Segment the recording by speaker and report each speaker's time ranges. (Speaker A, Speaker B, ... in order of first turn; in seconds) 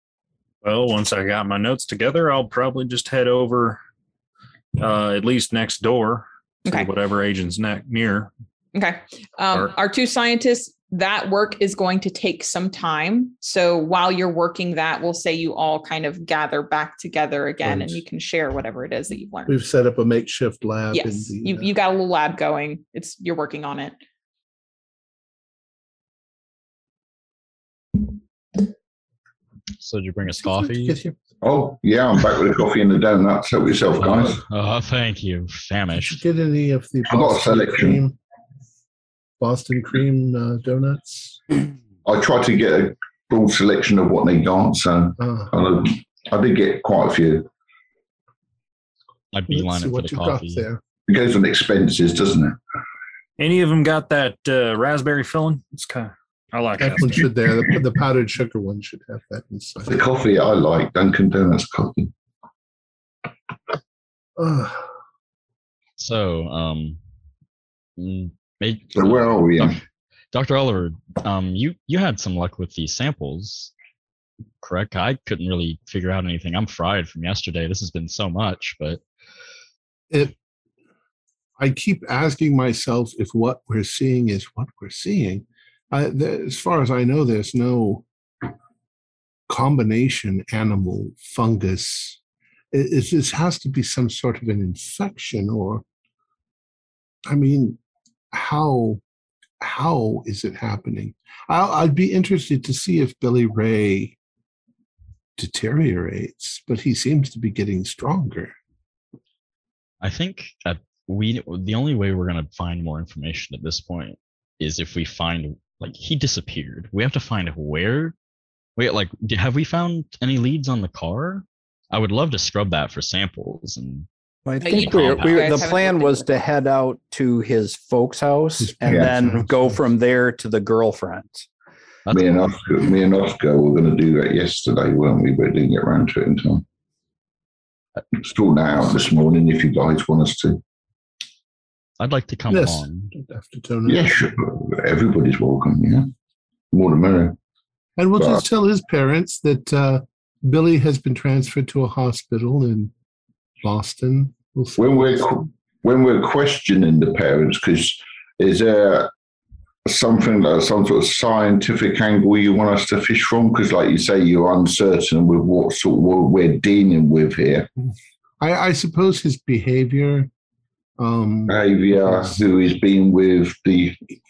Speaker A: 0.6-3.8, 4.8-8.3, 53.4-57.2
Speaker B: 8.7-19.5, 20.9-24.0, 124.6-126.3
Speaker C: 17.6-18.0, 19.4-21.7, 30.4-31.1, 35.9-38.2, 39.4-41.4, 45.2-45.5, 49.5-50.8, 56.8-60.0, 64.4-64.8, 81.6-88.0, 89.5-92.2, 92.7-95.8, 97.2-97.8, 98.3-99.0, 99.6-104.2, 105.4-108.5, 128.6-129.5, 142.5-144.1, 148.0-152.9, 153.6-155.2, 168.4-170.3, 171.0-172.4
Speaker D: 29.8-31.0, 34.0-36.2, 49.3-50.6, 66.0-67.0, 68.0-69.8, 70.3-73.7, 74.6-79.0, 110.0-118.1, 118.8-124.0, 124.7-125.7, 132.1-132.3, 142.0-143.1
Speaker E: 31.4-34.4, 37.1-38.0, 42.0-47.5, 51.1-52.6, 59.8-62.1, 68.9-69.8, 128.9-129.1, 132.1-136.6, 138.1-140.6, 143.8-146.1, 146.7-147.4, 148.2-148.4, 154.8-159.1, 159.8-167.7, 171.5-174.0
Speaker F: 124.5-131.5